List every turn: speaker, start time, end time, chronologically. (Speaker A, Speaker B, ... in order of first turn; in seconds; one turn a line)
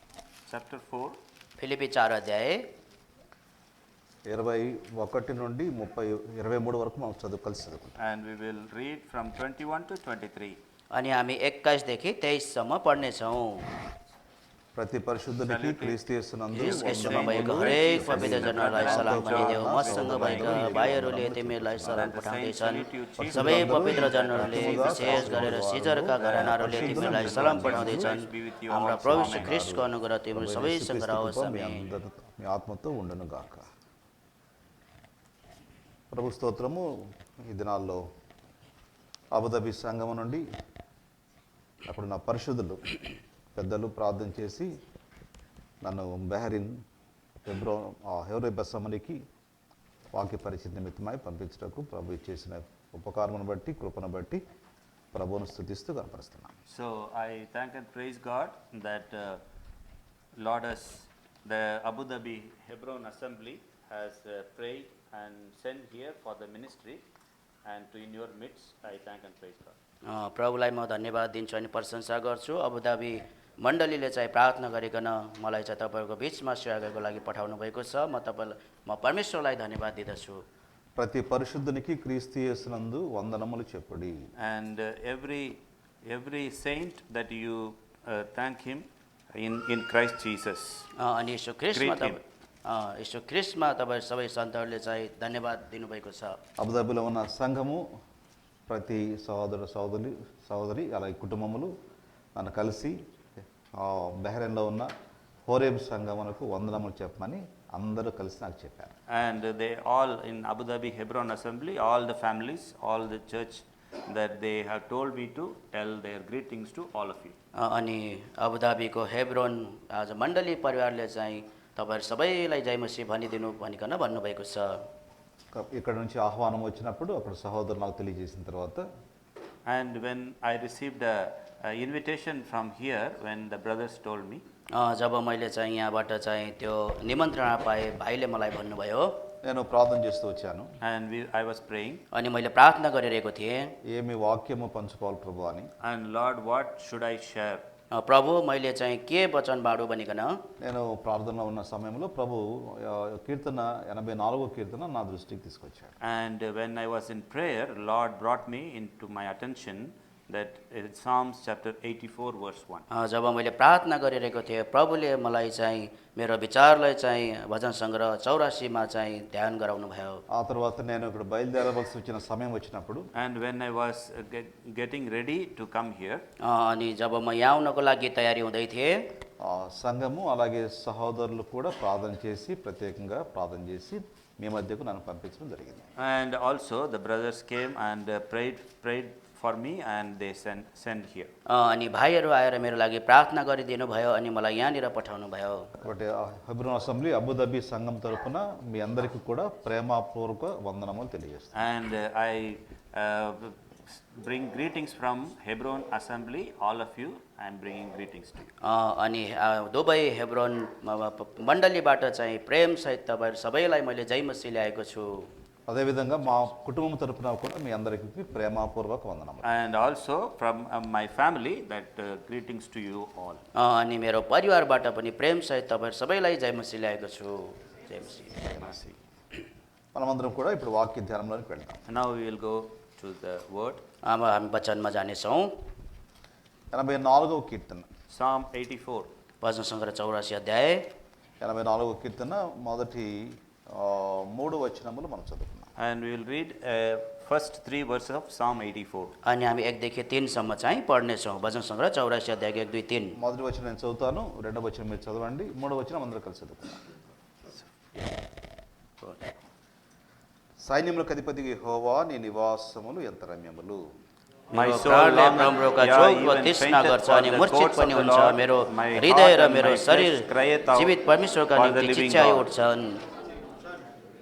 Speaker A: 0.5-1.2
Speaker B: 1.6-2.6
Speaker C: 4.3-7.9
Speaker A: 8.0-10.6
Speaker B: 10.9-13.7
Speaker C: 14.8-22.0
Speaker A: 15.4-16.0
Speaker A: 16.5-21.1
Speaker B: 16.6-31.9
Speaker A: 21.8-29.6
Speaker C: 23.2-28.1
Speaker C: 29.1-33.6
Speaker C: 36.1-36.9
Speaker C: 37.5-38.0
Speaker C: 39.3-40.4
Speaker C: 41.9-42.8
Speaker C: 43.5-44.7
Speaker C: 45.8-46.8
Speaker C: 47.5-49.2
Speaker C: 50.1-54.4
Speaker C: 55.1-56.5
Speaker A: 56.7-59.4
Speaker A: 60.4-67.0
Speaker A: 67.7-69.8
Speaker B: 70.1-80.4
Speaker C: 81.0-84.3
Speaker A: 84.4-90.9
Speaker B: 91.0-96.4
Speaker A: 91.7-92.2
Speaker C: 96.6-97.8
Speaker C: 98.7-101.7
Speaker C: 102.4-103.0
Speaker C: 103.8-104.9
Speaker C: 105.5-108.9
Speaker A: 109.1-117.3
Speaker B: 117.6-124.8
Speaker C: 125.5-128.8
Speaker A: 129.7-134.4
Speaker B: 134.7-139.2
Speaker C: 139.4-140.7
Speaker A: 140.8-142.0
Speaker B: 142.1-143.8
Speaker C: 143.9-145.7
Speaker A: 145.8-147.7
Speaker B: 147.9-150.4
Speaker C: 150.6-155.9
Speaker A: 156.0-162.8
Speaker B: 162.9-170.2
Speaker C: 170.3-173.1
Speaker A: 173.1-176.2
Speaker B: 176.4-179.0
Speaker C: 179.4-185.9
Speaker A: 186.0-191.3
Speaker B: 191.5-195.8
Speaker C: 195.8-201.6
Speaker A: 201.5-208.5
Speaker B: 208.6-215.3
Speaker C: 215.7-219.5
Speaker A: 219.4-223.4
Speaker B: 223.6-228.8
Speaker C: 229.9-231.8
Speaker A: 231.9-233.8
Speaker B: 234.1-235.5
Speaker C: 236.7-237.9
Speaker A: 238.1-239.1
Speaker B: 239.4-240.9
Speaker C: 241.4-245.7
Speaker A: 245.8-249.1
Speaker B: 249.2-253.2
Speaker C: 253.2-256.8
Speaker C: 260.6-263.8
Speaker A: 264.5-270.9
Speaker B: 264.5-273.0
Speaker A: 271.5-272.5